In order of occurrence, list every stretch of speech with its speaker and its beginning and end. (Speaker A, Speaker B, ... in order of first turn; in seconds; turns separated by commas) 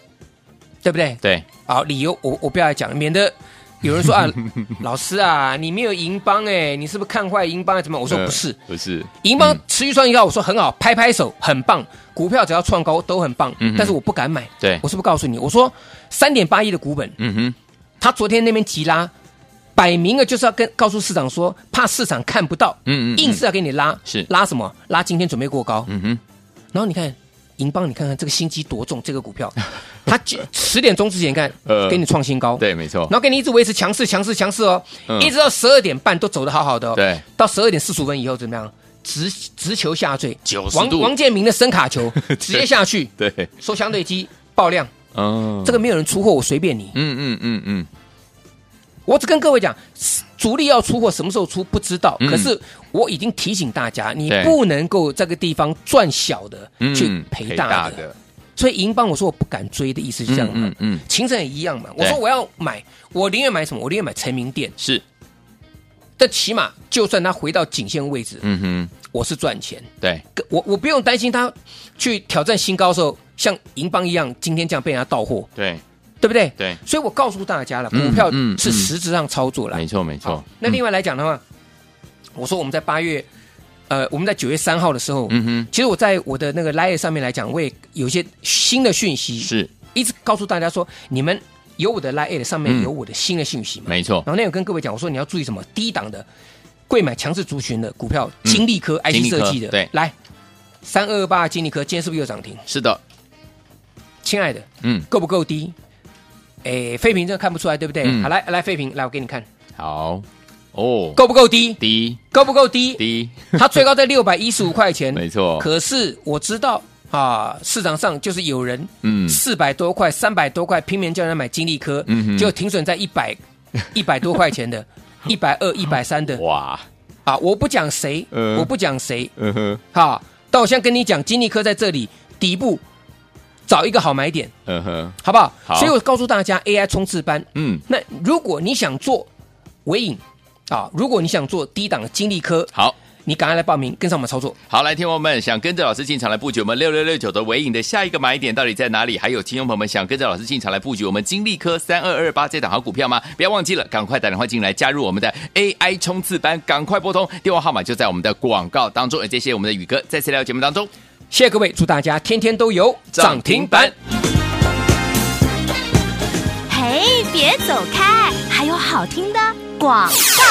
Speaker A: 0.8-8.6, Speaker B: 8.1-9.6, Speaker A: 9.2-17.2, Speaker B: 13.6-13.9, Speaker B: 17.2-17.6, Speaker A: 18.0-19.1, Speaker A: 19.8-25.9, Speaker B: 22.9-23.4, Speaker B: 25.9-26.2, Speaker A: 26.7-44.9, Speaker B: 31.7-32.0, Speaker B: 32.6-33.1, Speaker B: 37.0-37.2, Speaker B: 40.5-41.1, Speaker B: 42.2-42.6, Speaker B: 43.2-43.5, Speaker B: 45.1-45.8, Speaker A: 45.6-47.0, Speaker B: 46.9-47.9, Speaker A: 49.1-58.0, Speaker B: 52.2-52.5, Speaker B: 54.3-54.6, Speaker B: 56.8-58.1, Speaker A: 58.6-64.8, Speaker B: 60.3-61.0, Speaker A: 66.2-68.4, Speaker B: 68.4-68.9, Speaker A: 69.0-75.5, Speaker B: 75.6-75.8, Speaker A: 76.2-81.4, Speaker B: 77.9-78.9, Speaker B: 79.7-80.8, Speaker A: 82.4-83.3, Speaker A: 83.9-96.3, Speaker B: 85.3-85.7, Speaker B: 89.4-89.7, Speaker B: 93.9-94.3, Speaker A: 96.9-100.1, Speaker B: 98.5-99.9, Speaker A: 100.8-102.6, Speaker B: 102.7-103.0, Speaker A: 104.2-105.8, Speaker A: 106.6-109.5, Speaker B: 108.0-108.3, Speaker B: 109.8-111.2, Speaker A: 111.2-111.8, Speaker B: 111.8-112.2, Speaker A: 112.3-113.0, Speaker B: 113.0-113.6, Speaker A: 113.5-126.4, Speaker B: 115.1-115.7, Speaker B: 119.0-119.4, Speaker B: 122.1-122.5, Speaker B: 126.4-126.8, Speaker A: 127.3-129.3, Speaker B: 128.3-128.7, Speaker B: 129.4-129.8, Speaker A: 129.9-132.8, Speaker A: 133.7-134.5, Speaker B: 134.7-135.9, Speaker A: 135.2-139.3, Speaker B: 137.6-137.8, Speaker A: 139.9-142.7, Speaker A: 143.3-144.6, Speaker B: 144.7-160.9, Speaker A: 161.3-163.9, Speaker B: 163.1-163.9, Speaker C: 166.7-170.4